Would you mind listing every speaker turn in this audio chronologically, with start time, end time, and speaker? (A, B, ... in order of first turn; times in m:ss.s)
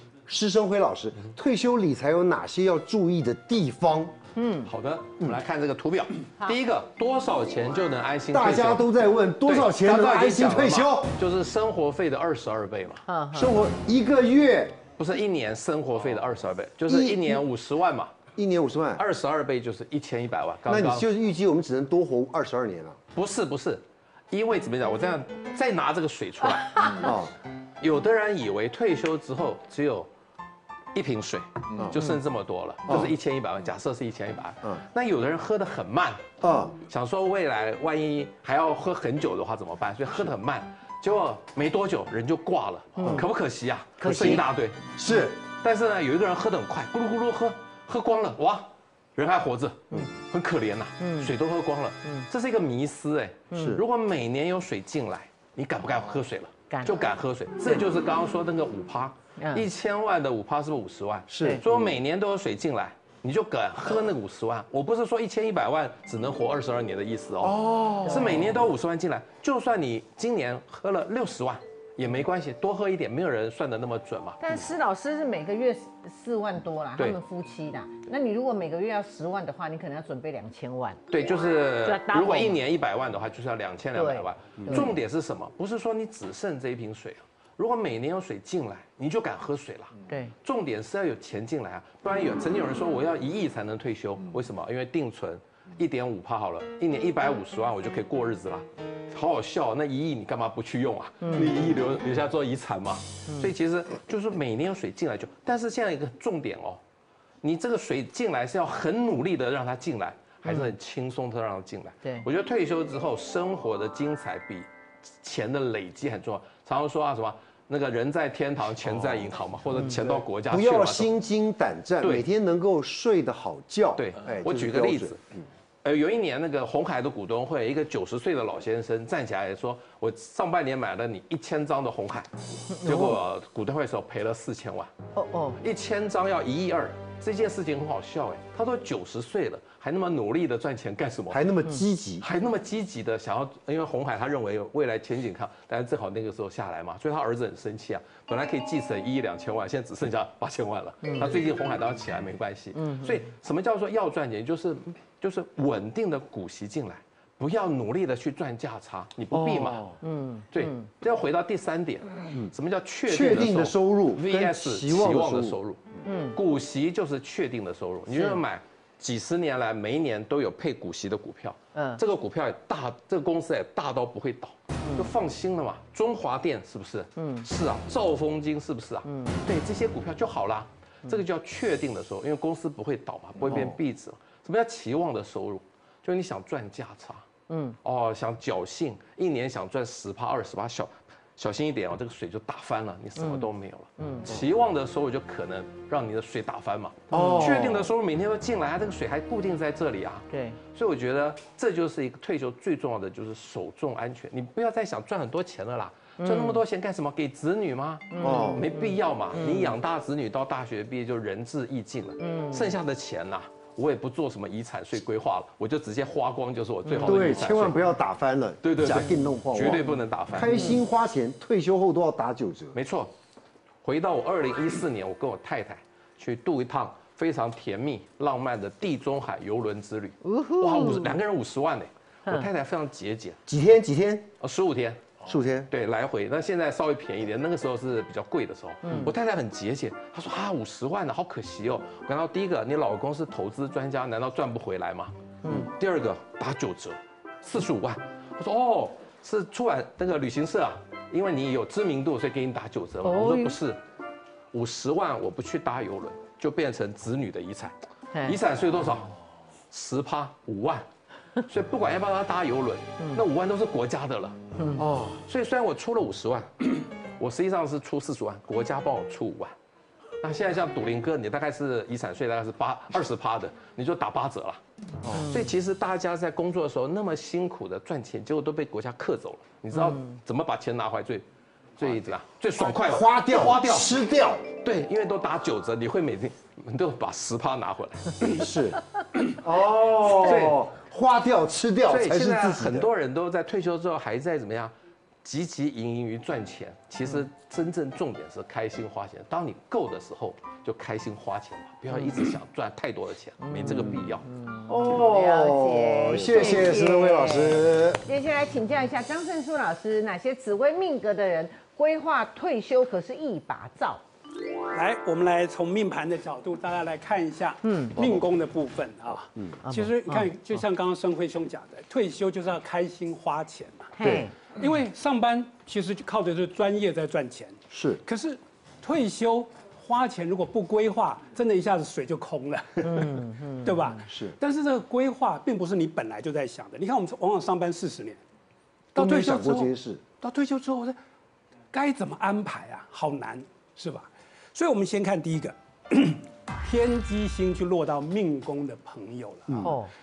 0:00.2-0:04.1 A
0:04.4-0:04.7 B
0:04.6-0:08.9 C
0:08.3-0:11.1 A
0:09.4-0:13.0 C
0:13.1-0:13.6 B
0:13.3-0:14.8 A
0:15.0-0:18.2 C
0:16.9-0:17.4 A
0:18.4-0:19.0 A
0:19.0-0:21.0 C
0:20.6-0:23.0 A
0:23.1-0:27.2 C
0:26.8-0:27.3 A
0:27.8-0:30.1 C
0:30.9-0:36.2 C
0:36.4-0:36.8 A
0:36.8-1:14.4 C
0:44.0-0:44.4 B
0:44.0-0:44.4 A
0:45.0-0:45.3 A
0:51.0-0:51.3 B
0:53.5-0:53.8 A
0:56.7-0:57.0 B
0:59.4-0:59.7 B
1:01.3-1:01.8 A
1:07.4-1:08.3 A
1:08.0-1:08.6 B
1:14.4-1:21.0 B
1:21.1-1:46.8 C
1:21.8-1:22.6 B
1:23.9-1:24.9 B
1:24.6-1:24.9 A
1:30.1-1:30.3 B
1:41.2-1:41.5 B
1:47.4-1:54.7 C
1:55.2-2:01.1 C
1:59.8-2:00.0 B
2:00.3-2:05.4 A
2:03.9-2:05.2 C
2:05.8-2:12.3 C
2:12.7-2:13.2 B
2:12.8-2:14.9 C
2:15.2-2:15.6 B
2:15.6-2:21.5 C
2:21.3-2:22.2 A
2:22.2-2:39.8 C
2:31.0-2:31.4 B
2:32.8-2:33.2 B
2:39.3-2:40.0 A
2:40.0-2:40.9 B
2:40.5-2:45.8 C
2:43.1-2:45.6 A
2:46.0-2:46.4 B
2:46.3-3:07.2 C
2:48.1-2:48.4 B
2:51.7-2:52.0 B
2:54.8-2:55.1 B
2:57.2-2:57.5 B
2:59.0-2:59.4 B
3:07.5-3:07.8 B
3:07.8-3:37.8 C
3:13.2-3:14.3 B
3:17.1-3:17.5 B
3:17.1-3:17.9 A
3:20.3-3:20.6 B
3:26.2-3:26.6 B
3:28.1-3:29.8 B
3:28.2-3:28.6 A
3:32.2-3:32.7 B
3:36.9-3:37.3 B
3:37.0-3:42.8 A
3:38.6-3:40.8 C
3:42.7-3:43.1 C
3:43.8-3:53.4 C
3:50.3-3:51.1 B
3:53.5-3:54.3 A
3:54.4-4:13.8 C
3:55.2-3:55.7 A
3:58.8-3:59.1 B
4:05.4-4:05.7 B
4:13.0-4:13.6 B
4:14.5-4:19.1 C
4:18.1-4:18.4 B
4:19.7-4:20.8 C
4:21.5-4:24.4 C
4:24.6-4:24.8 B
4:24.8-4:25.2 A
4:25.2-4:29.5 C
4:30.2-4:41.2 C
4:35.0-4:35.4 A
4:41.8-4:48.5 C
4:42.8-4:44.5 A
4:48.3-4:48.8 A
4:49.3-4:52.9 A
4:50.2-4:50.6 C
4:51.9-4:54.7 C
4:55.2-5:04.2 C
5:03.4-5:14.0 B
5:03.6-5:04.0 A
5:04.7-5:08.0 A
5:14.7-5:23.9 D
5:17.6-5:17.9 B
5:19.6-5:20.3 B
5:24.0-5:24.5 B
5:24.0-5:24.3 A
5:24.5-5:38.2 D
5:27.7-5:28.0 A
5:32.8-5:34.0 B
5:34.1-5:34.3 A
5:38.9-5:41.0 D
5:39.0-5:40.0 A
5:41.7-5:49.7 D
5:49.5-5:49.8 A
5:49.6-5:49.9 B